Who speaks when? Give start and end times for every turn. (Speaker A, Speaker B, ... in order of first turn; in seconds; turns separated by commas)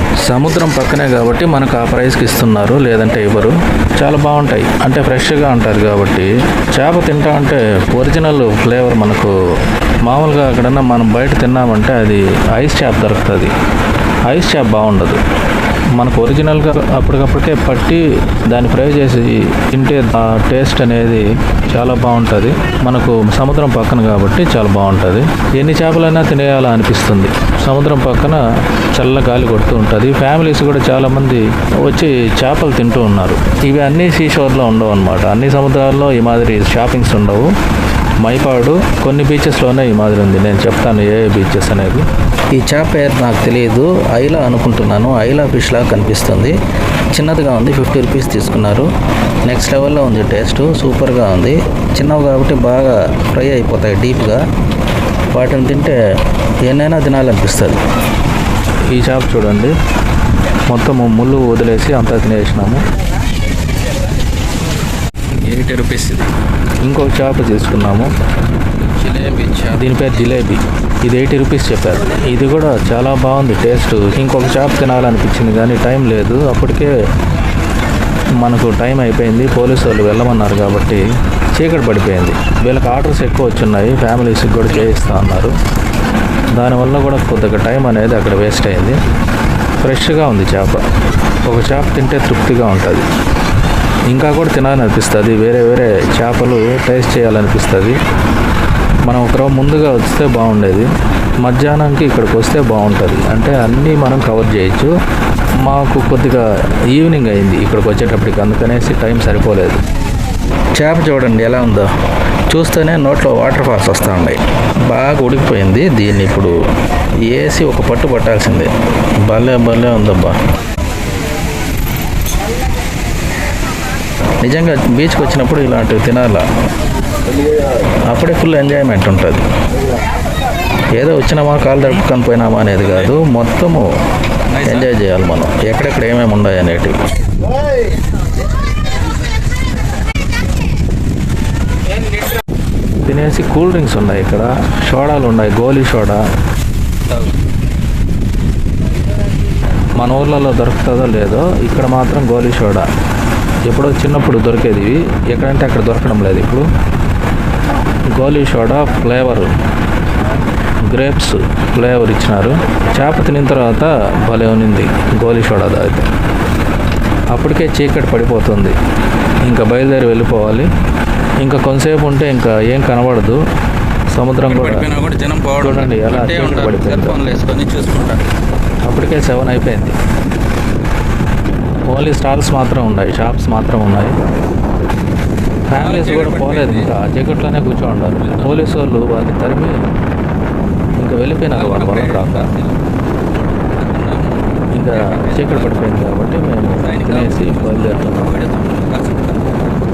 Speaker A: 0.2-9.3, Speaker A: 10.1-13.5, Speaker A: 14.3-15.2, Speaker A: 16.0-28.4, Speaker A: 28.9-37.5, Speaker A: 38.2-46.5, Speaker A: 47.1-48.9, Speaker A: 49.5-54.4, Speaker A: 55.3-56.0, Speaker A: 56.7-57.8, Speaker A: 58.9-59.7, Speaker A: 60.7-62.8, Speaker B: 65.5-66.3, Speaker A: 66.8-68.1, Speaker B: 68.8-69.8, Speaker A: 69.7-76.9, Speaker A: 78.4-81.0, Speaker A: 81.5-85.5, Speaker A: 86.6-89.0, Speaker A: 89.8-90.8, Speaker A: 91.5-93.0, Speaker A: 94.1-98.0, Speaker A: 99.1-100.9, Speaker A: 101.4-104.9, Speaker A: 105.6-109.8, Speaker A: 110.8-111.9, Speaker A: 112.5-116.6, Speaker A: 117.3-118.7, Speaker A: 119.3-120.3, Speaker A: 124.4-126.4, Speaker A: 128.1-129.4, Speaker A: 131.0-133.8, Speaker B: 132.8-133.2, Speaker B: 134.5-134.9, Speaker A: 134.7-137.0, Speaker A: 143.1-146.2, Speaker A: 150.0-152.9, Speaker A: 153.7-156.7, Speaker A: 158.2-159.5, Speaker A: 160.9-166.1, Speaker A: 167.3-168.8, Speaker A: 169.4-170.7, Speaker A: 171.4-173.4, Speaker A: 174.1-174.8, Speaker B: 174.5-178.2, Speaker A: 175.6-177.2, Speaker A: 178.9-180.0, Speaker A: 181.9-184.1, Speaker A: 185.7-189.7, Speaker B: 185.8-186.9, Speaker B: 188.2-188.7, Speaker A: 191.0-192.5, Speaker B: 191.5-192.8, Speaker B: 193.8-195.8, Speaker A: 194.8-198.3, Speaker B: 196.8-199.6